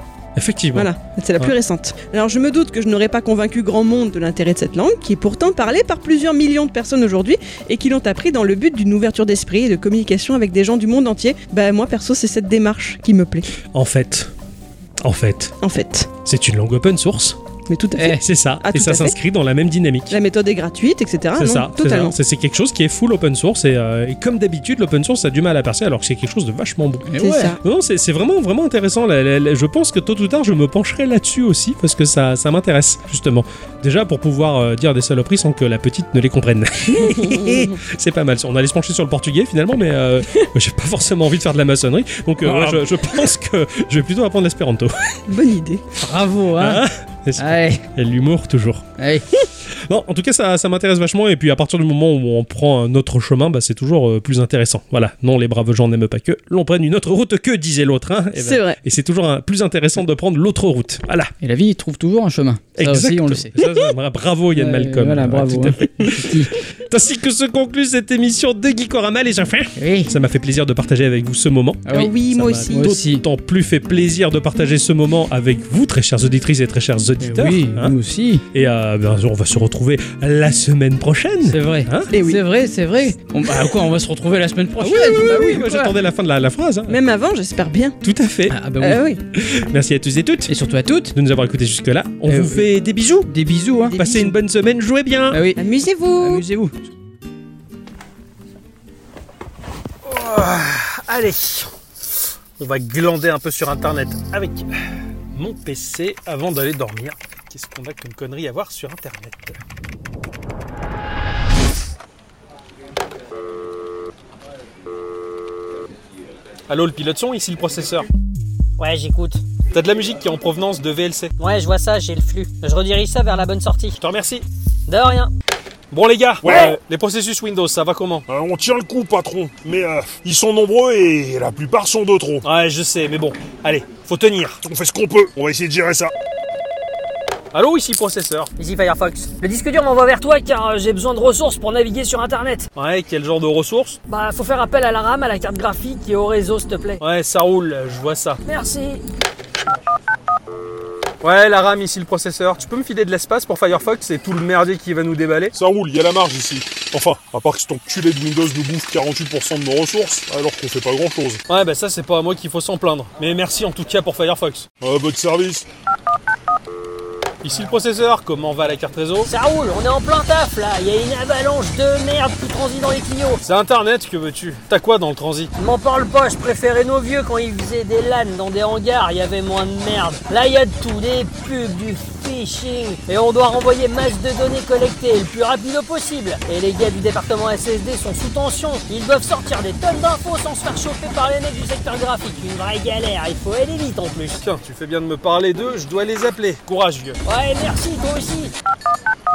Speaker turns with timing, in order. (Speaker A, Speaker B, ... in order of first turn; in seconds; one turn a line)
Speaker A: 0.3-1.5
Speaker B: 0.7-13.5
Speaker A: 13.7-14.3
Speaker A: 15.0-15.5
Speaker B: 15.6-16.1
Speaker A: 16.2-17.4
Speaker B: 17.7-19.2
Speaker C: 18.0-18.2
Speaker A: 18.2-20.1
Speaker B: 20.1-22.1
Speaker A: 21.4-27.1
Speaker C: 27.0-27.6
Speaker B: 27.2-27.6
Speaker A: 27.6-45.2
Speaker B: 36.9-37.8
Speaker C: 42.4-42.9
Speaker B: 45.3-45.8
Speaker C: 46.0-46.8
Speaker A: 46.5-48.9
Speaker C: 47.4-47.8
Speaker C: 49.0-49.2
Speaker A: 49.7-61.3
Speaker B: 58.4-58.8
Speaker C: 61.4-63.5
Speaker A: 62.8-77.9
Speaker C: 64.5-66.5
Speaker C: 69.8-70.1
Speaker C: 71.9-72.1
Speaker B: 71.9-72.9
Speaker C: 72.7-73.2
Speaker C: 77.2-78.4
Speaker A: 78.5-82.1
Speaker C: 81.4-85.9
Speaker B: 82.1-82.4
Speaker A: 84.8-87.0
Speaker B: 86.9-88.0
Speaker A: 88.0-88.6
Speaker C: 88.5-89.0
Speaker B: 88.8-89.2
Speaker A: 89.3-90.5
Speaker C: 90.5-91.1
Speaker A: 91.1-93.3
Speaker C: 92.3-92.7
Speaker C: 93.2-94.0
Speaker B: 93.9-94.3
Speaker A: 94.0-95.5
Speaker C: 95.3-95.6
Speaker B: 95.5-96.4
Speaker C: 96.2-96.8
Speaker D: 100.0-101.7
Speaker D: 102.6-104.7
Speaker D: 105.3-109.6
Speaker D: 116.7-118.1
Speaker E: 118.8-119.4
Speaker D: 119.7-121.3
Speaker E: 121.4-124.0
Speaker D: 124.0-124.4
Speaker E: 124.9-125.3
Speaker D: 125.9-128.2
Speaker F: 126.4-126.7
Speaker F: 128.3-132.4
Speaker D: 132.4-134.6
Speaker F: 134.6-136.1
Speaker D: 137.5-138.5
Speaker E: 138.6-142.7
Speaker D: 142.8-144.0
Speaker E: 144.1-147.0
Speaker D: 147.0-148.4
Speaker E: 148.4-149.0
Speaker D: 151.2-155.5
Speaker F: 155.5-161.4
Speaker D: 161.5-164.7
Speaker F: 164.8-165.7
Speaker D: 167.4-169.3
Speaker E: 169.2-173.4
Speaker D: 173.4-175.5
Speaker E: 175.6-194.3
Speaker D: 194.2-197.2
Speaker E: 197.2-198.5